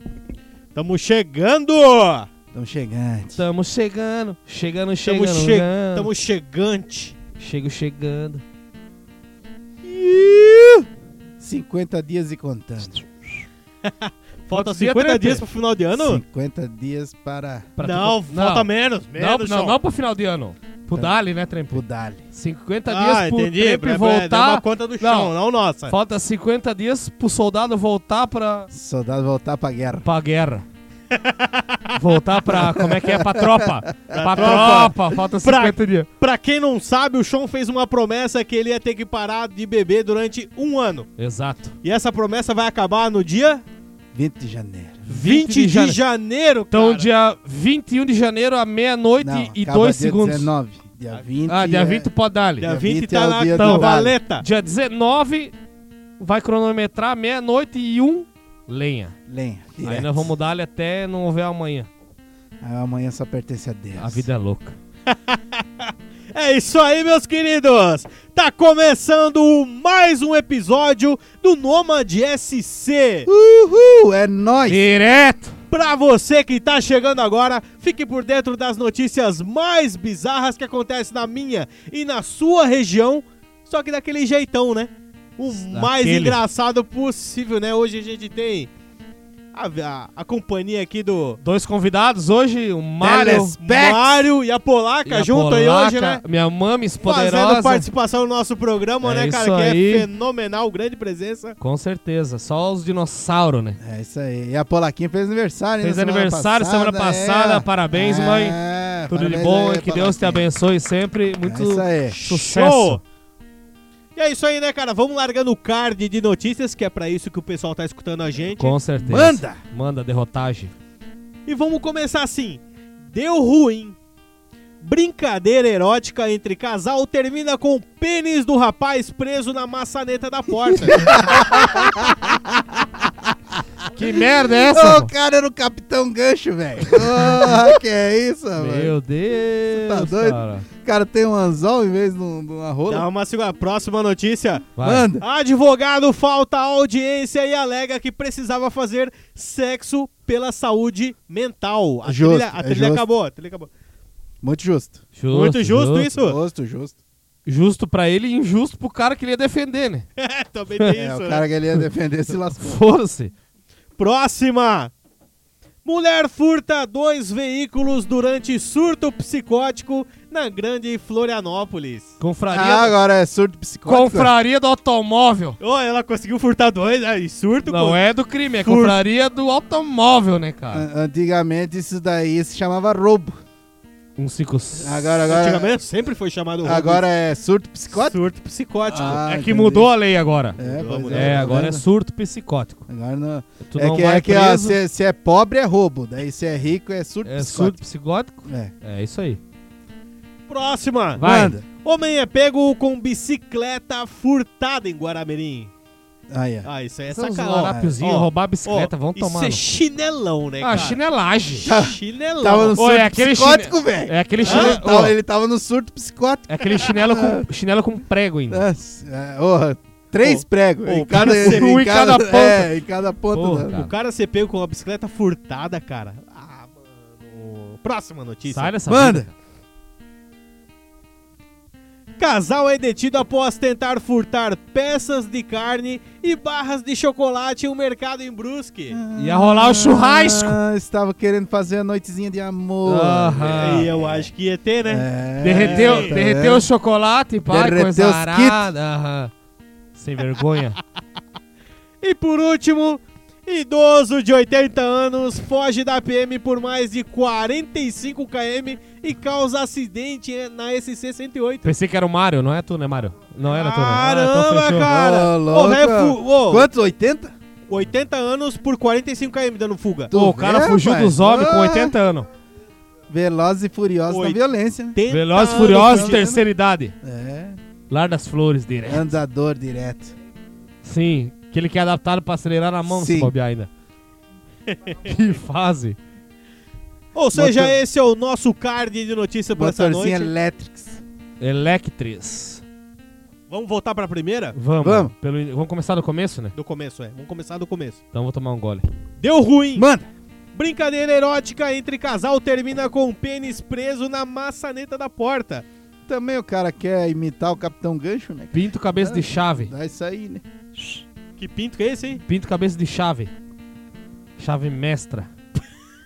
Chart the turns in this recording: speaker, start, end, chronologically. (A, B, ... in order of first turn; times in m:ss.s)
0:00.7-0:02.3 A
0:02.5-0:03.4 B
0:03.4-0:06.1 C
0:05.0-0:07.2 A
0:07.4-0:08.4 C
0:09.8-0:10.8 B
0:11.4-0:13.0 B
0:13.8-0:16.2 A
0:14.5-0:15.4 C
0:16.0-0:17.7 B
0:17.8-0:25.3 C
0:17.8-0:19.8 A
0:21.7-0:22.2 B
0:22.9-0:26.0 A
0:25.9-0:28.7 C
0:28.7-0:30.0 B
0:30.0-0:30.6 C
0:31.1-0:32.0 A
0:31.9-0:36.1 C
0:32.5-0:35.1 B
0:34.1-0:41.1 A
0:41.2-0:41.8 C
0:41.8-0:43.6 A
0:44.1-0:45.1 B
0:45.1-0:46.0 C
0:45.1-0:47.1 A
0:46.7-0:50.5 C
0:49.2-0:52.1 B
0:51.5-0:52.7 C
0:52.6-0:54.4 A
0:52.6-0:54.1 B
0:53.5-0:55.5 C
0:56.2-0:59.1 C
0:59.3-1:00.3 B
0:59.8-1:01.9 C
1:02.6-1:04.3 B
1:04.0-1:04.8 C
1:05.1-1:13.3 A
1:13.3-1:14.8 B
1:14.7-1:15.5 C
1:15.7-1:28.7 A
1:25.5-1:26.4 C
1:29.5-1:31.4 A
1:31.4-1:33.5 C
1:33.0-1:34.1 B
1:33.6-1:36.2 A
1:35.0-1:37.9 C
1:37.0-1:41.6 A
1:39.0-1:40.1 C
1:41.6-1:43.8 C
1:43.8-1:50.5 B
1:45.8-1:48.6 C
1:49.1-1:53.0 C
1:51.4-1:52.1 B
1:52.1-1:53.0 A
1:54.2-1:58.8 A
1:58.6-2:00.7 C
1:59.0-1:59.6 B
2:01.4-2:04.0 A
2:04.8-2:11.5 A
2:10.8-2:13.3 B
2:13.9-2:15.1 C
2:14.2-2:18.9 B
2:16.8-2:17.7 C
2:18.6-2:20.6 C
2:19.7-2:23.0 B
2:22.9-2:33.7 A
2:24.8-2:25.1 C
2:24.8-2:25.2 B
2:32.0-2:33.0 B
2:34.4-2:35.0 B
2:35.2-2:36.1 C
2:35.3-2:36.4 A
2:36.2-2:37.0 B
2:37.4-2:40.0 C
2:40.2-2:41.4 A
2:41.0-2:42.8 B
2:42.6-2:43.3 C
2:44.0-2:44.9 A
2:45.8-2:52.1 A
2:52.2-2:53.0 C
2:52.5-2:54.3 B
2:53.8-2:55.6 C
2:55.6-2:58.0 A
2:57.6-3:00.8 C
2:58.6-2:59.0 A
3:00.7-3:03.4 B
3:04.2-3:05.2 C
3:04.8-3:05.7 B
3:05.2-3:07.0 A
3:06.6-3:08.2 B
3:07.9-3:09.2 A
3:08.9-3:09.9 B
3:08.9-3:10.6 C
3:10.6-3:11.8 B
3:10.6-3:11.5 A
3:11.1-3:12.8 C
3:12.9-3:17.8 B
3:13.7-3:14.8 C
3:17.2-3:19.4 C
3:18.5-3:18.7 B
3:20.5-3:21.2 A
3:21.2-3:21.6 C
3:21.2-3:21.6 B
3:21.8-3:25.7 A
3:26.3-3:26.7 B
3:26.6-3:31.0 A
3:27.1-3:29.7 C
3:27.7-3:28.0 B
3:30.6-3:31.7 C
3:31.6-3:32.8 A
3:31.6-3:37.5 B
3:32.8-3:35.1 C
3:34.4-3:34.7 A
3:36.5-3:38.7 C
3:38.5-3:43.7 B
3:40.2-3:41.7 A
3:41.2-3:42.7 C
3:43.3-3:43.9 C
3:43.7-3:48.7 A
3:48.5-3:49.3 C
3:48.9-3:49.3 B
3:52.2-3:59.0 A
3:58.9-4:04.2 B
3:59.2-4:00.6 C
4:02.8-4:03.9 C
4:03.4-4:06.2 A
4:04.8-4:06.7 B
4:05.4-4:09.3 C
4:07.5-4:08.6 B
4:09.9-4:10.8 C
4:12.0-4:21.7 A
4:21.6-4:24.9 C
4:23.5-4:26.7 A
4:24.8-4:27.3 B
4:27.7-4:30.1 A
4:30.1-4:32.0 B
4:30.1-4:32.3 C
4:33.1-4:36.4 B
4:34.1-4:34.4 A
4:34.9-4:36.3 A
4:35.1-4:36.9 C
4:37.0-4:37.6 B
4:37.9-4:39.1 C
4:38.8-4:40.1 B
4:40.8-4:43.7 C
4:42.9-4:43.3 B
4:44.7-4:45.1 A
4:45.0-4:46.0 C
4:47.1-4:50.3 A
4:47.3-4:47.8 B
4:49.6-4:51.0 B
4:51.4-4:52.6 C
4:53.5-4:54.6 A
4:54.6-4:56.5 C
4:54.8-4:55.1 B
4:56.5-4:58.0 A
4:58.1-4:58.8 C
4:59.2-4:59.9 A
4:59.8-5:00.1 B
5:00.5-5:05.6 A
5:06.1-5:10.4 B
5:08.5-5:09.7 C
5:11.4-5:12.2 A
5:12.2-5:13.3 C
5:14.4-5:15.3 C